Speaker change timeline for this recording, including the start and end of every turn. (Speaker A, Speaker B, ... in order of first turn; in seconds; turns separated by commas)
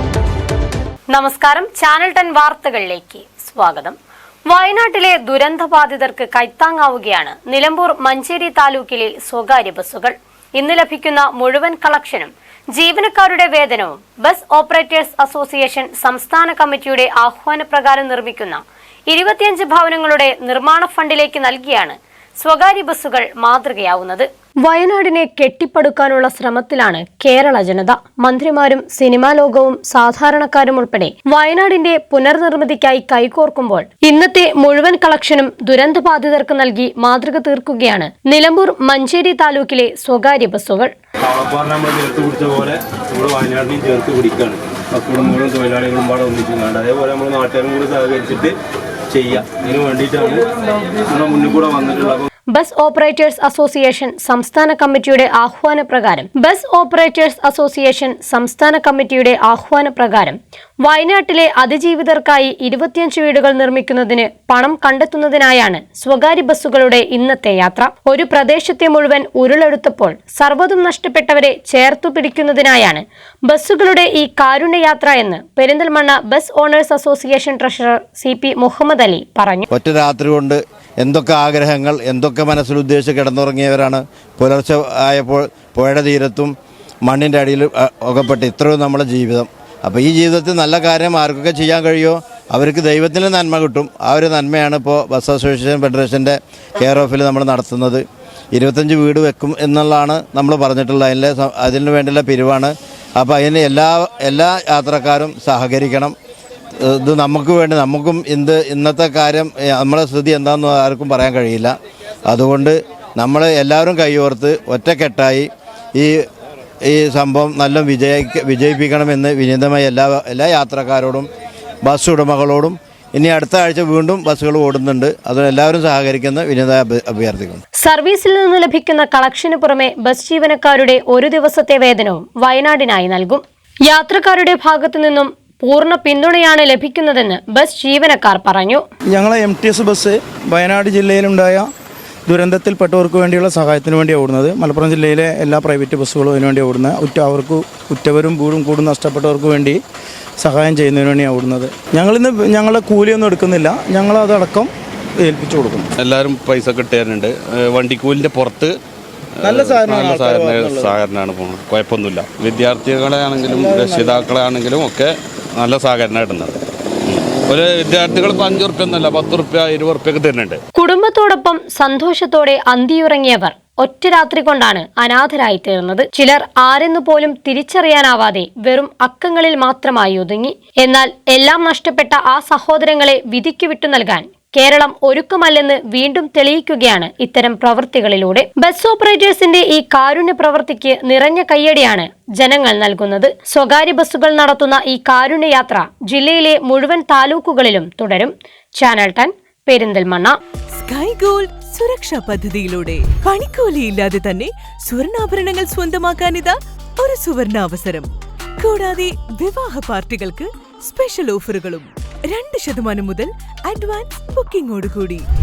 Speaker A: 1.1-40.9, Speaker B: 41.2-48.5, Speaker B: 49.1-50.5, Speaker B: 51.0-52.2, Speaker A: 52.5-79.7, Speaker C: 79.7-86.5, Speaker C: 87.1-106.2, Speaker C: 106.8-111.8, Speaker C: 112.3-116.2, Speaker C: 116.8-121.3, Speaker C: 121.9-127.6, Speaker A: 127.8-138.8, Speaker D: 139.1-141.7, Speaker D: 142.3-149.8, Speaker D: 150.4-155.9, Speaker E: 156.0-158.8, Speaker E: 159.4-170.6, Speaker D: 159.4-161.0, Speaker D: 163.4-164.3, Speaker A: 170.8-200.4, Speaker F: 200.8-215.3